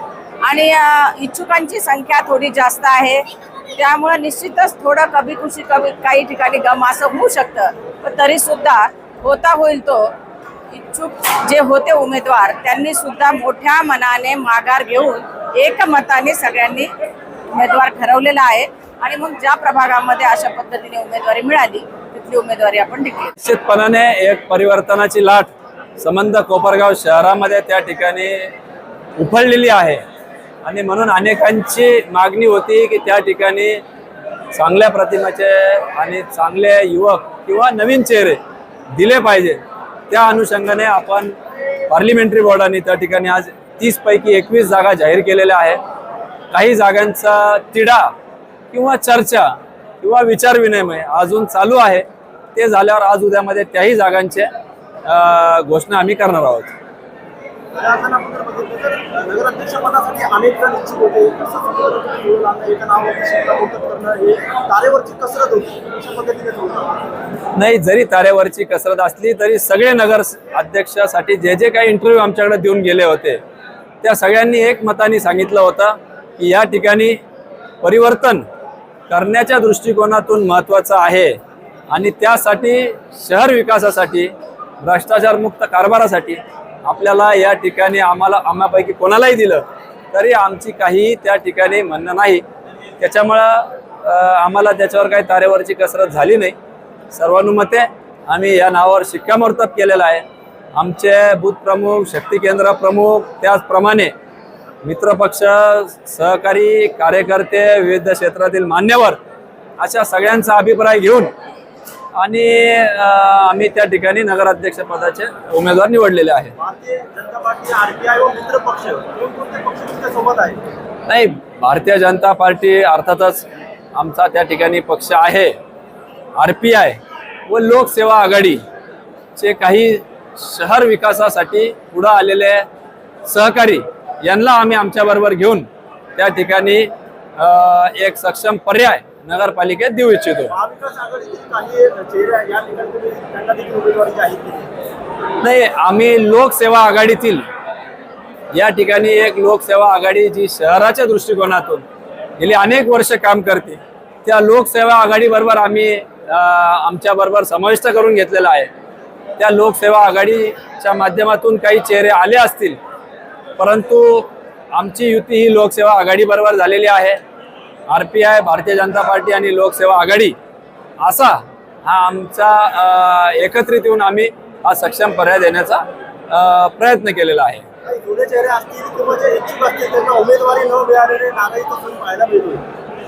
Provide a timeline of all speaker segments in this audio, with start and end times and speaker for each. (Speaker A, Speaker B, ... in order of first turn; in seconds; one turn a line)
Speaker A: 0.4-10.1
Speaker A: 10.7-16.9
Speaker A: 17.5-23.3
Speaker B: 23.4-28.5
Speaker B: 29.2-30.0
Speaker B: 30.6-33.8
Speaker B: 34.5-38.4
Speaker B: 38.9-41.3
Speaker B: 41.9-45.8
Speaker B: 46.5-48.1
Speaker B: 48.7-54.5
Speaker B: 55.1-56.8
Speaker C: 57.7-67.0
Speaker B: 67.6-73.4
Speaker B: 74.0-77.2
Speaker B: 77.8-78.4
Speaker B: 79.1-81.4
Speaker B: 81.9-92.4
Speaker B: 93.0-96.6
Speaker B: 97.1-104.1
Speaker B: 104.8-109.2
Speaker B: 109.8-111.3
Speaker B: 112.2-116.5
Speaker C: 116.6-120.6
Speaker B: 121.1-125.5
Speaker B: 126.4-128.6
Speaker B: 129.4-132.7
Speaker B: 133.3-140.5
Speaker C: 140.5-144.7
Speaker B: 145.4-147.4
Speaker B: 148.5-151.8
Speaker B: 152.4-158.7
Speaker B: 159.4-162.8
Speaker B: 163.6-167.2
Speaker B: 167.9-170.4
Speaker B: 171.0-177.7
Speaker C: 177.8-182.6